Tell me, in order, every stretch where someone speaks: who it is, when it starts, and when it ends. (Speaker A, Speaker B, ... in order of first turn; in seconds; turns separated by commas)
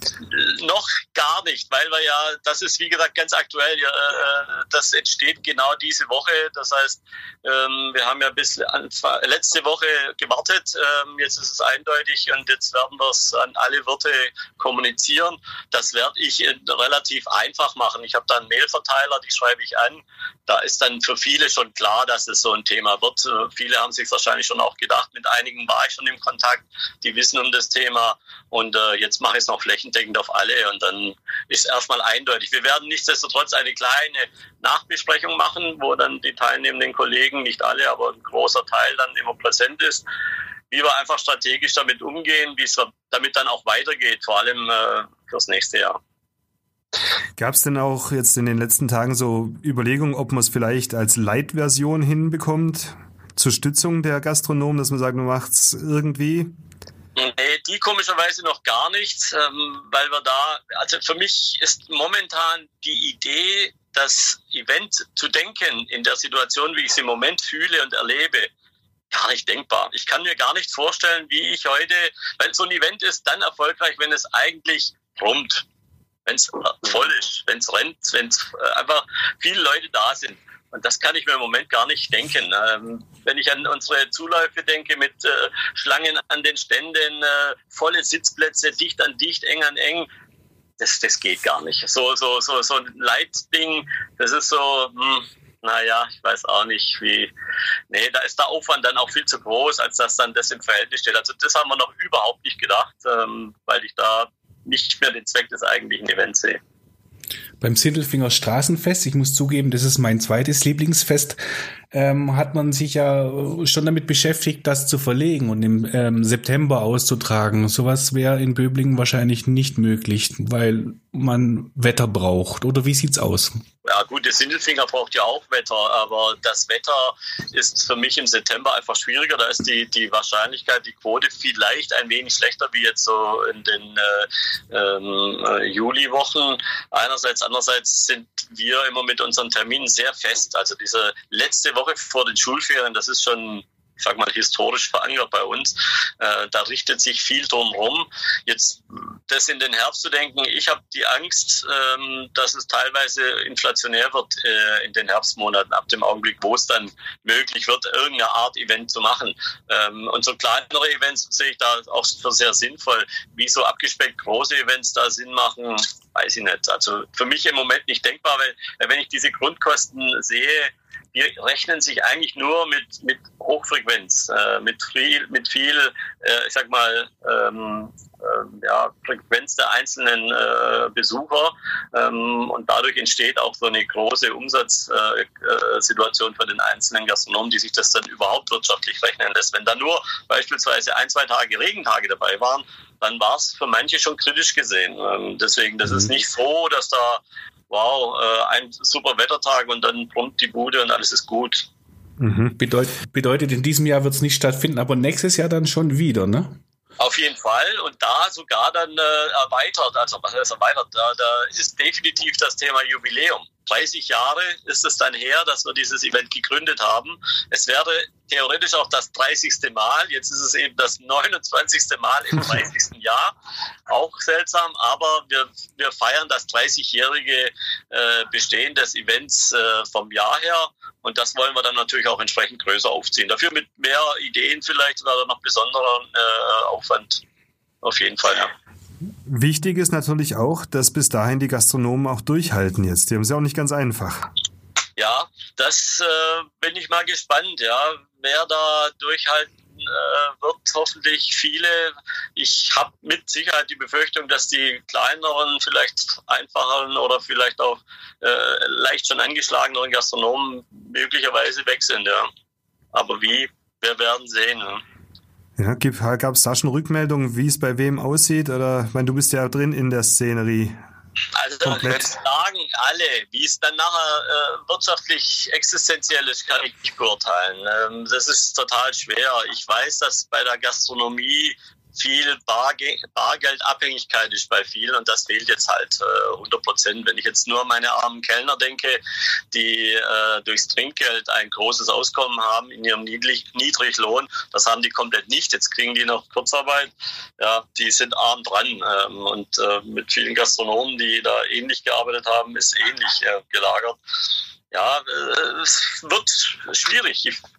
Speaker A: 0.3-40.1, Speaker A: 40.7-46.0, Speaker B: 47.4-56.5, Speaker A: 57.2-68.5, Speaker A: 69.1-75.7, Speaker A: 76.3-90.1, Speaker A: 90.8-97.3, Speaker A: 97.9-106.6, Speaker C: 107.6-123.6, Speaker A: 123.8-201.7, Speaker B: 202.2-202.6, Speaker C: 202.6-206.6, Speaker A: 207.0-223.3, Speaker A: 223.9-237.2, Speaker A: 237.8-238.5, Speaker B: 239.3-244.3, Speaker A: 245.0-262.3, Speaker A: 262.9-264.8, Speaker B: 265.6-270.8, Speaker A: 271.3-289.0, Speaker B: 271.6-272.1, Speaker A: 289.5-304.0, Speaker A: 304.7-307.4